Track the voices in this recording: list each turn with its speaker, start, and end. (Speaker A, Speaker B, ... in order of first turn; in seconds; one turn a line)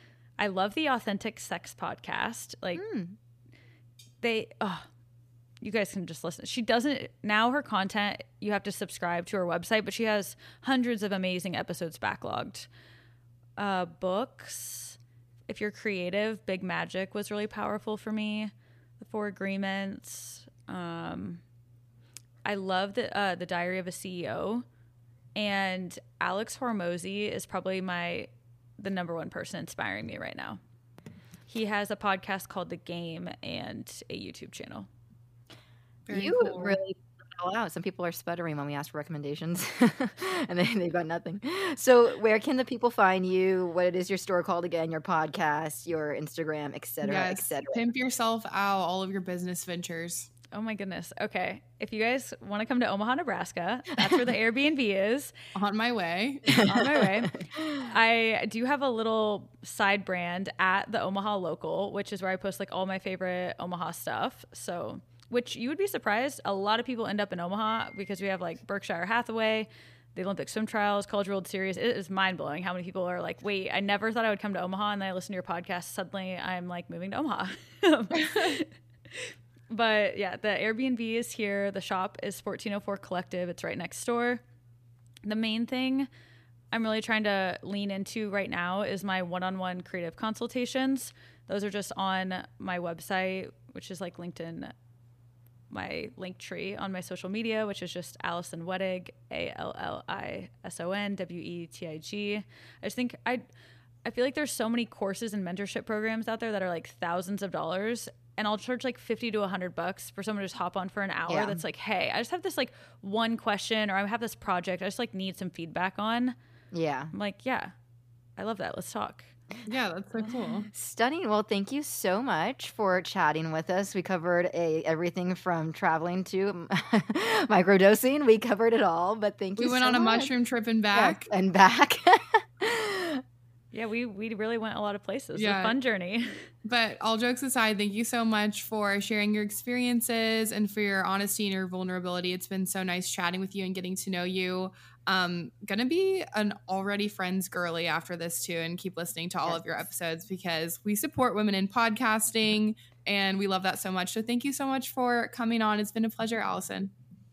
Speaker A: 0.4-2.8
Speaker B: 2.8-3.1
Speaker A: 4.2-4.9
Speaker A: 5.6-12.7
Speaker A: 13.6-21.4
Speaker A: 22.4-24.6
Speaker A: 25.4-30.6
Speaker A: 31.5-34.9
Speaker C: 36.1-36.8
Speaker B: 36.1-47.8
Speaker C: 47.0-50.3
Speaker A: 50.5-55.3
Speaker C: 55.5-56.6
Speaker B: 56.5-57.8
Speaker A: 56.6-84.4
Speaker C: 78.2-78.5
Speaker A: 85.2-86.1
Speaker A: 86.7-94.7
Speaker A: 95.7-103.4
Speaker A: 104.0-116.3
Speaker B: 111.3-111.6
Speaker B: 116.7-117.1
Speaker A: 117.1-117.7
Speaker A: 118.4-119.3
Speaker C: 119.7-120.7
Speaker B: 120.7-130.3
Speaker C: 129.6-131.3
Speaker B: 130.9-133.2
Speaker A: 133.7-136.4
Speaker C: 135.3-135.8
Speaker C: 136.6-156.9